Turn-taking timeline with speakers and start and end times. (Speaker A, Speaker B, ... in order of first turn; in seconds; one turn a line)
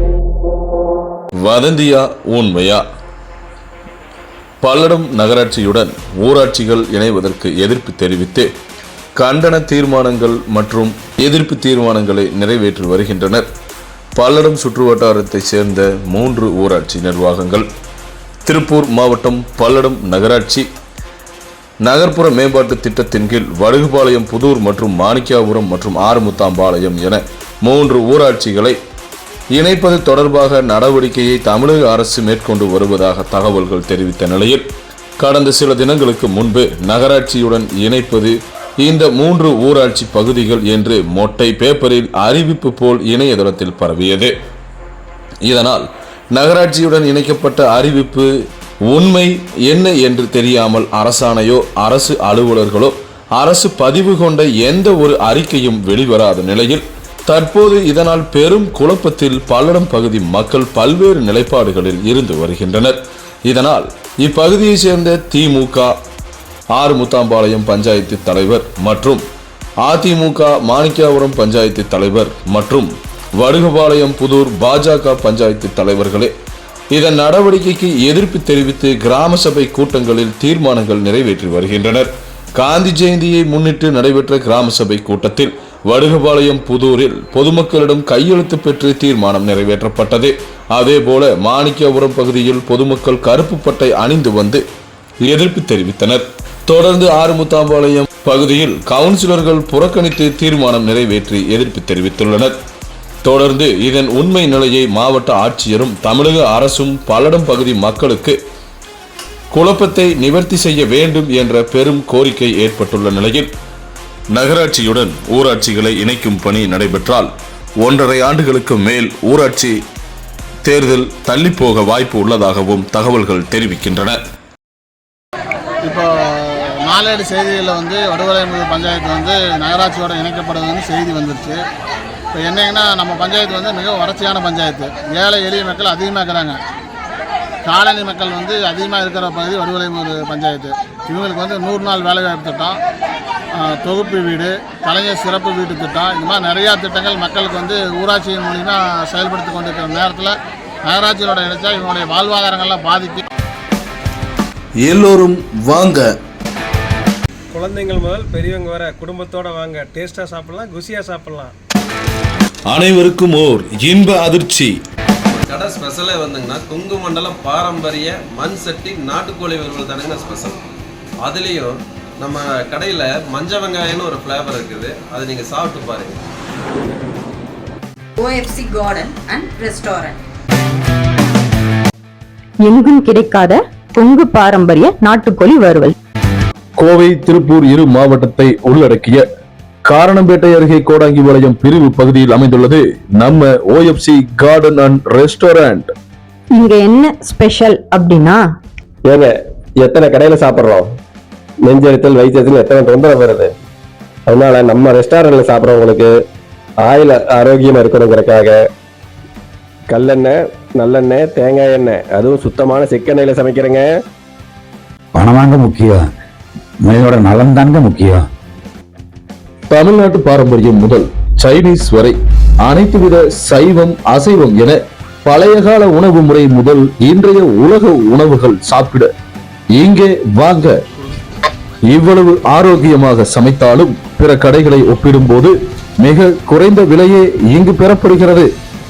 Speaker A: 1.4-2.8
Speaker A: 4.6-8.5
Speaker A: 9.2-13.5
Speaker A: 14.2-17.7
Speaker A: 18.5-20.7
Speaker A: 21.8-28.8
Speaker A: 29.5-34.7
Speaker A: 35.2-44.3
Speaker A: 45.4-48.3
Speaker A: 48.9-66.0
Speaker A: 66.7-69.2
Speaker A: 69.8-76.3
Speaker A: 76.9-94.6
Speaker A: 95.2-102.5
Speaker A: 103.2-108.4
Speaker A: 109.5-113.5
Speaker A: 114.3-117.3
Speaker A: 117.8-119.8
Speaker A: 120.6-124.2
Speaker B: 125.8-131.6
Speaker B: 132.3-136.6
Speaker B: 137.7-142.8
Speaker B: 143.5-153.2
Speaker A: 154.8-156.1
Speaker C: 157.5-161.6
Speaker A: 162.7-164.8
Speaker D: 165.3-170.6
Speaker D: 171.2-176.2
Speaker E: 178.2-180.2
Speaker F: 182.6-185.9
Speaker A: 186.8-189.2
Speaker A: 189.9-195.9
Speaker F: 196.5-198.5
Speaker G: 199.1-200.8
Speaker G: 201.7-203.5
Speaker G: 204.3-206.1
Speaker G: 206.8-208.6
Speaker G: 209.9-213.8
Speaker H: 215.1-216.1
Speaker H: 216.8-218.3
Speaker A: 219.7-229.1
Speaker A: 229.8-230.7
Speaker A: 231.9-238.5